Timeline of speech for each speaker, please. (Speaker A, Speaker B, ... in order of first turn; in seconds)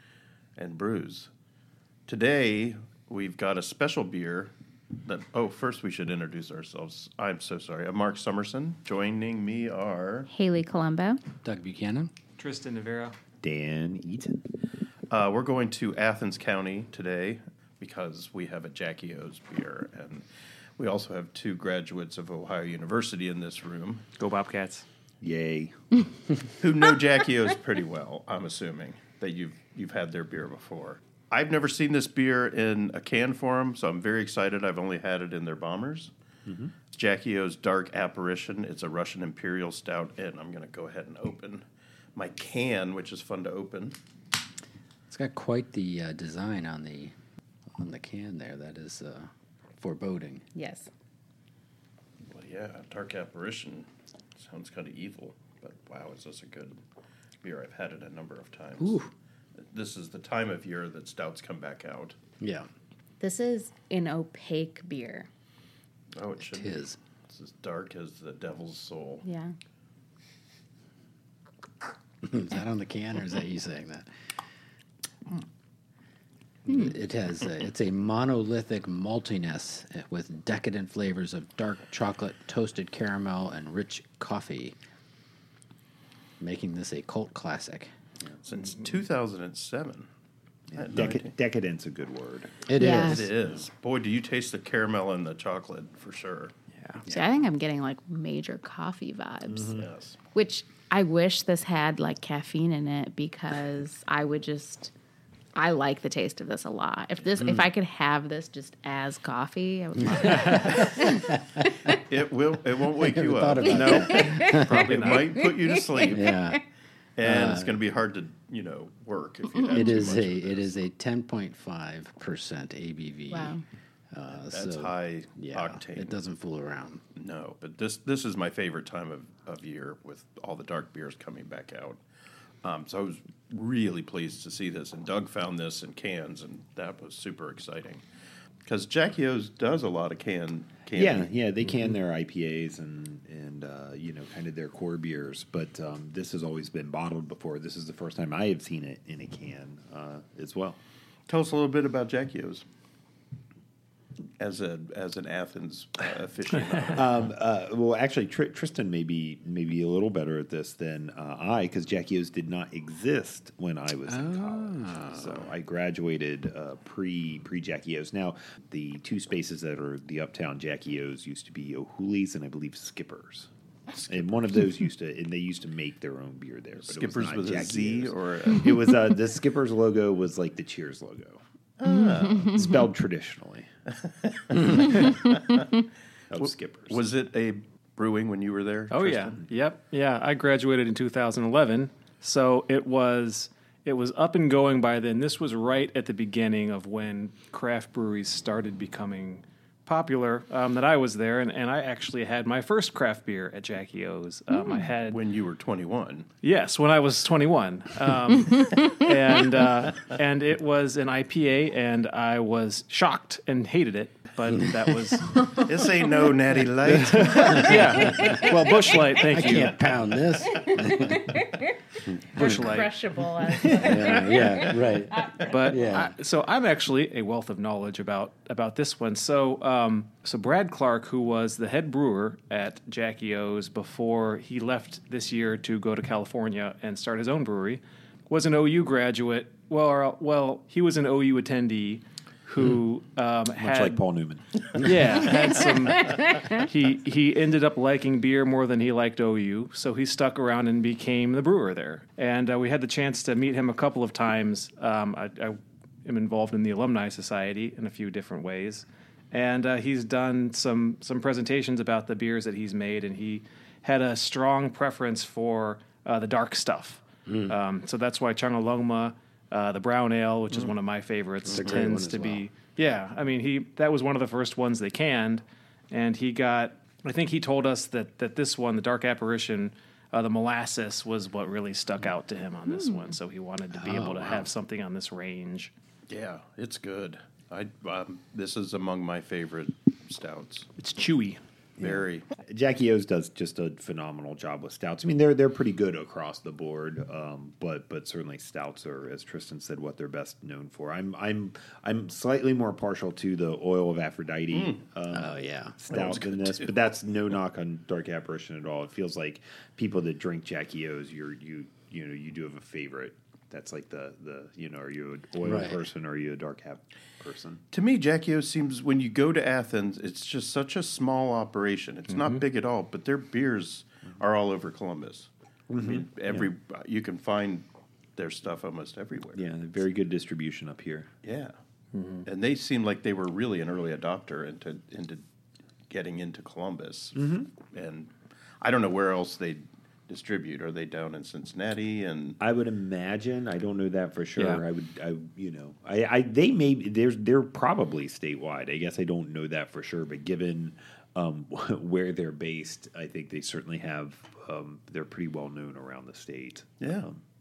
Speaker A: 0.6-1.3, 2.1-4.5, 5.0-10.3, 15.1-20.2, 20.8-24.1, 26.6-36.1, 36.9-41.6, 42.2-44.0, 52.3-56.8, 57.4-59.0, 59.6-62.2, 66.1-69.2, 88.4-90.1, 90.8-91.3, 92.8-96.5, 99.7-100.2, 111.9-116.4, 117.2-120.8, 124.5-126.2, 127.2-132.0, 132.6-138.0, 138.7-141.3, 151.3-152.7, 154.4-157.2, 176.8-178.9, 181.8-182.7, 184.0-185.7, 186.4-189.4, 205.1-206.3, 215.5-218.8, 286.1-290.7, 291.8-292.2, 304.5-304.8, 305.9-306.8, 317.7-329.4, 331.2-331.5, 332.2-335.2, 335.9-342.4, 356.8-357.1
Speaker B: 10.3-11.2, 50.5-50.9, 63.2-65.3, 69.2-69.5, 92.8-93.3, 97.1-104.9, 105.5-112.0, 113.8-116.6, 123.3-123.6, 204.5-204.8, 208.7-209.0, 215.4-215.7, 218.2-218.5, 220.5-225.8, 246.0-246.5
Speaker C: 11.4-12.1, 45.1-47.1, 47.8-50.4, 58.8-59.1, 62.4-62.7, 66.5-67.0, 72.2-74.1, 76.7-84.8, 86.4-87.9, 92.7-93.3, 107.4-107.7, 110.1-111.3, 113.0-114.9, 116.0-116.6, 117.2-117.8, 119.7-123.6, 124.1-127.0, 164.1-165.5, 217.7-218.5, 219.3-221.4, 223.6-226.1, 267.3-267.5, 271.4-272.4, 283.8-284.5, 305.1-305.9, 315.4-315.8
Speaker D: 12.4-13.2, 24.2-24.9, 114.7-115.3, 188.9-205.2, 206.4-215.4, 216.9-219.8, 222.3-223.2, 225.4-244.0, 244.7-285.7, 290.8-291.4, 322.1-322.4, 331.9-332.2, 344.4-344.6
Speaker E: 13.4-14.4, 25.2-25.8, 36.5-36.7, 90.7-92.7, 140.9-150.8, 156.9-173.5, 174.1-181.4, 182.5-183.7, 186.3-187.0, 243.6-245.2, 291.8-317.6, 325.7-326.5, 329.4-331.1, 337.1-337.5, 342.4-357.2